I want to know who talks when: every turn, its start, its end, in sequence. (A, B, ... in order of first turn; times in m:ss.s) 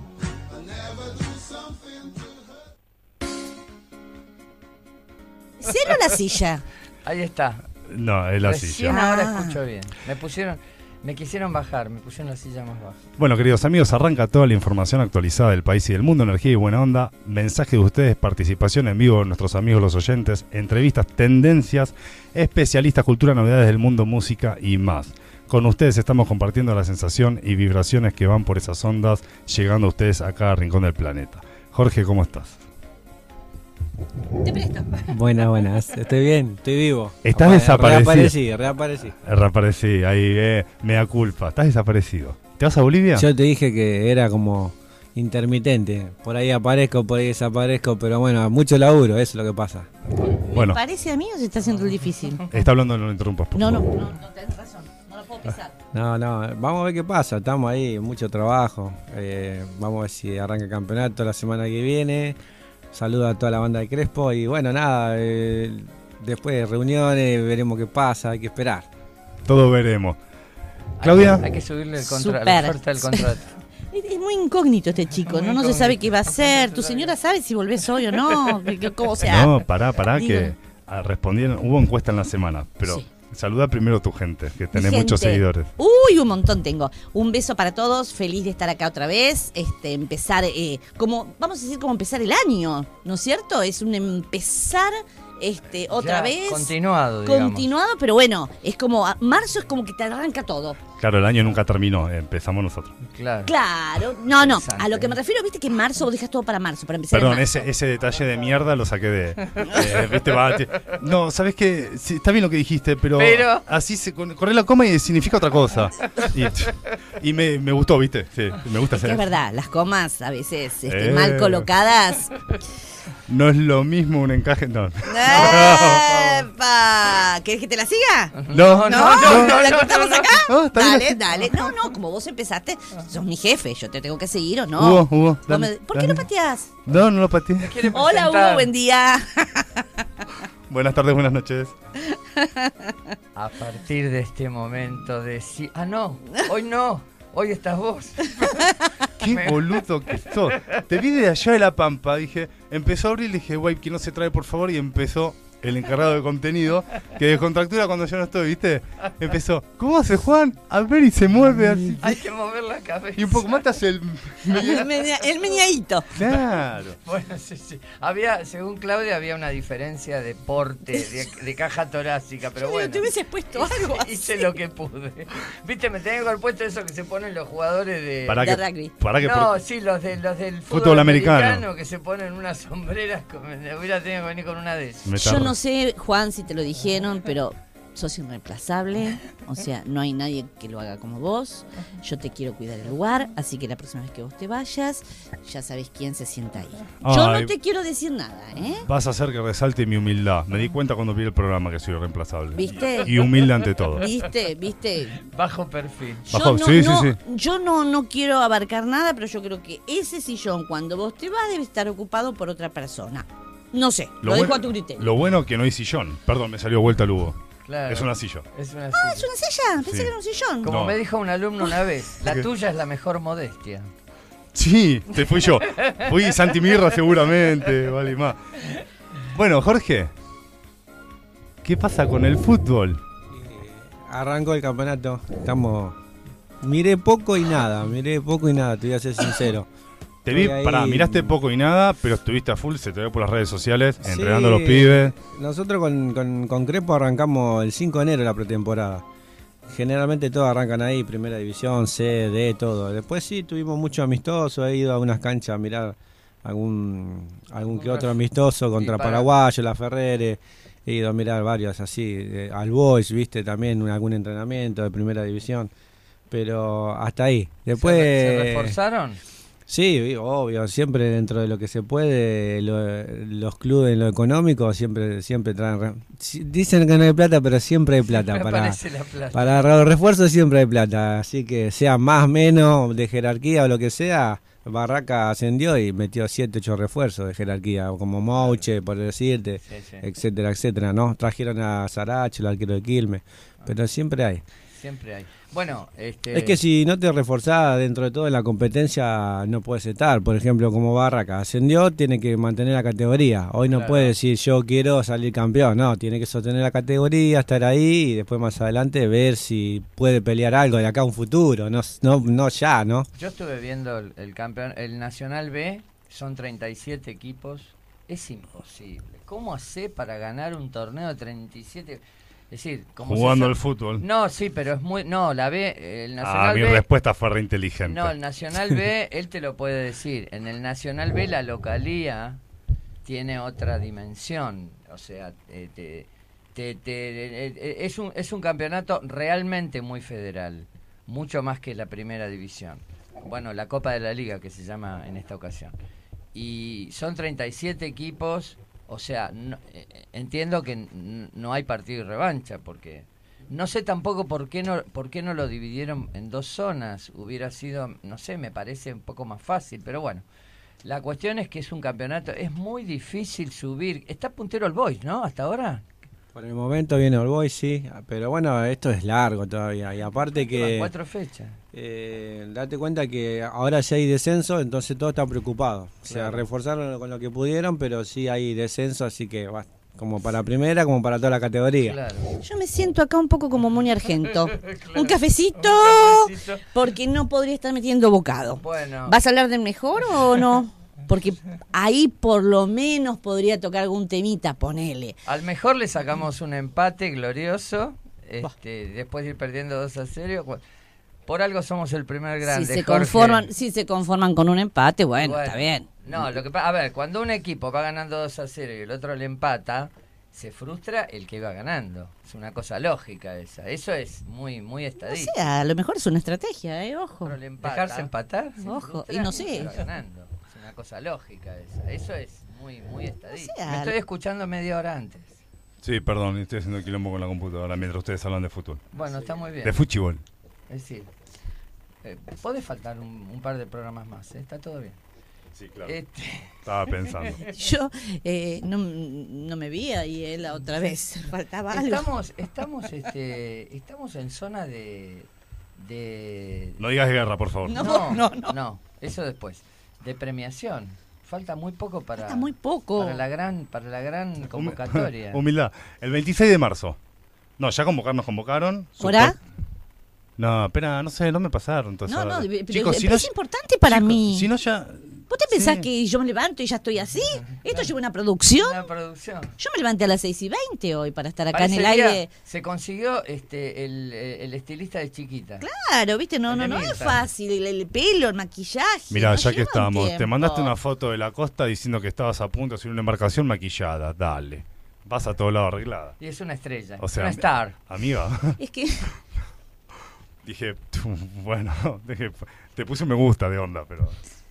0:05.6-0:06.6 A
0:07.0-0:07.6 B
0:07.9-0:09.0 C
0:08.4-0:13.0 B
0:08.9-0:09.6 A
0:13.2-0:32.6 C
0:34.4-0:35.1 A
0:35.1-0:39.1 D
0:37.2-0:38.3 C
0:39.2-0:43.2 C
0:43.1-0:49.9 D
0:50.5-0:50.8 C
0:50.5-0:52.4 A
0:51.6-0:52.5 B
0:52.5-0:53.9 C
0:53.5-0:55.8 A
0:55.9-1:02.4 D
1:02.9-1:08.9 D
1:09.4-1:10.2 C
1:11.0-1:13.6 B
1:11.0-1:11.4 C
1:12.0-1:13.2 A
1:13.9-1:19.6 A
1:15.2-1:17.1 B
1:19.2-1:25.7 C
1:20.1-1:20.5 A
1:24.7-1:40.8 A
1:35.9-1:37.6 B
1:40.9-1:43.0 C
1:43.1-1:43.5 B
1:43.4-1:47.4 A
1:44.3-1:45.2 B
1:47.1-1:59.2 C
1:49.4-1:51.0 B
1:53.2-1:53.6 B
1:58.9-2:02.4 A
2:00.9-2:01.7 C
2:03.3-2:06.4 C
2:05.1-2:16.8 A
2:05.3-2:05.8 B
2:08.3-2:10.3 B
2:08.5-2:09.8 C
2:10.4-2:11.4 C
2:14.8-2:16.3 C
2:16.8-2:17.8 C
2:17.6-2:18.7 B
2:17.9-2:20.0 A
2:20.7-2:21.7 C
2:22.0-2:22.9 A
2:23.3-2:28.6 B
2:28.4-2:28.7 A
2:29.2-2:42.2 C
2:29.3-2:30.8 B
2:42.0-2:43.7 B
2:43.2-2:44.8 C
2:44.4-2:45.6 B
2:44.6-2:46.1 A
2:46.1-2:47.0 C
2:47.0-2:58.4 B
2:52.6-2:54.5 A
2:58.3-2:59.5 C
2:58.4-2:59.0 A
2:59.2-3:05.1 B
3:00.7-3:01.6 C
3:05.1-3:05.6 C
3:05.2-3:18.8 A
3:17.0-3:17.5 C
3:18.8-3:24.0 C
3:22.5-3:23.2 A
3:24.0-3:25.2 A
3:25.2-3:26.2 B
3:26.3-3:27.2 C
3:26.3-3:35.1 A
3:34.2-3:38.4 C
3:37.6-3:39.3 B
3:38.9-3:40.7 A
3:39.8-3:40.1 C
3:40.6-3:43.9 B
3:40.6-3:41.0 C
3:44.5-3:48.4 C
3:45.7-3:46.6 B
3:49.3-3:50.1 C
3:51.6-3:53.0 C
3:53.3-3:56.0 D
3:56.6-3:59.7 D
4:00.2-4:05.1 C
4:00.3-4:01.3 D
4:04.0-4:09.0 D
4:09.7-4:25.7 D
4:17.6-4:18.2 B
4:18.7-4:19.3 B
4:26.3-4:28.8 D
4:27.7-4:29.2 B
4:29.7-4:38.8 D
4:38.1-4:39.7 B
4:39.3-4:54.4 D
4:48.4-4:48.6 B
4:49.6-4:50.1 B
4:54.7-4:56.6 B
4:56.3-5:13.1 D
5:03.7-5:04.1 B
5:13.1-5:26.8 B
5:23.0-5:24.0 C
5:26.2-5:28.1 C
5:27.8-5:32.4 B
5:33.0-5:45.7 B
5:46.3-6:00.2 B
6:00.8-6:05.8 B
6:06.3-6:10.9 D
6:10.5-6:11.6 B
6:11.7-6:22.0 D
6:16.1-6:16.4 B
6:21.8-6:22.4 B
6:22.4-6:35.2 A
6:24.3-6:26.6 B
6:28.6-6:29.2 B
6:35.2-6:40.6 B
6:41.3-6:43.5 B
6:42.4-6:46.3 A
6:45.2-6:55.3 B
6:55.0-6:59.8 A
6:57.2-7:05.4 B
7:03.3-7:03.9 A
7:05.8-7:08.8 C
7:08.9-7:09.7 B
7:09.6-7:10.2 C
7:10.7-7:11.1 B
7:12.0-7:15.0 B
7:15.6-7:15.9 C
7:15.8-7:17.4 B
7:16.5-7:17.4 C
7:17.5-7:22.1 A
7:21.7-7:26.8 B
7:26.8-7:27.8 C
7:27.6-7:28.5 A
7:27.7-7:35.4 B
7:32.2-7:33.2 A
7:34.5-7:37.0 C
7:37.6-7:39.4 C
7:39.0-7:39.4 A
7:40.4-7:43.3 C
7:42.1-7:44.5 A
7:43.8-7:45.9 C
7:45.3-7:48.9 A
7:47.4-7:47.9 B
7:48.6-7:49.5 B
7:49.6-7:52.3 A
7:51.5-7:55.6 B
7:55.6-8:00.7 A
7:56.5-7:57.2 B
7:59.1-8:06.2 C
8:06.2-8:07.8 B
8:07.0-8:08.6 C
8:08.6-8:09.1 A
8:10.4-8:14.2 C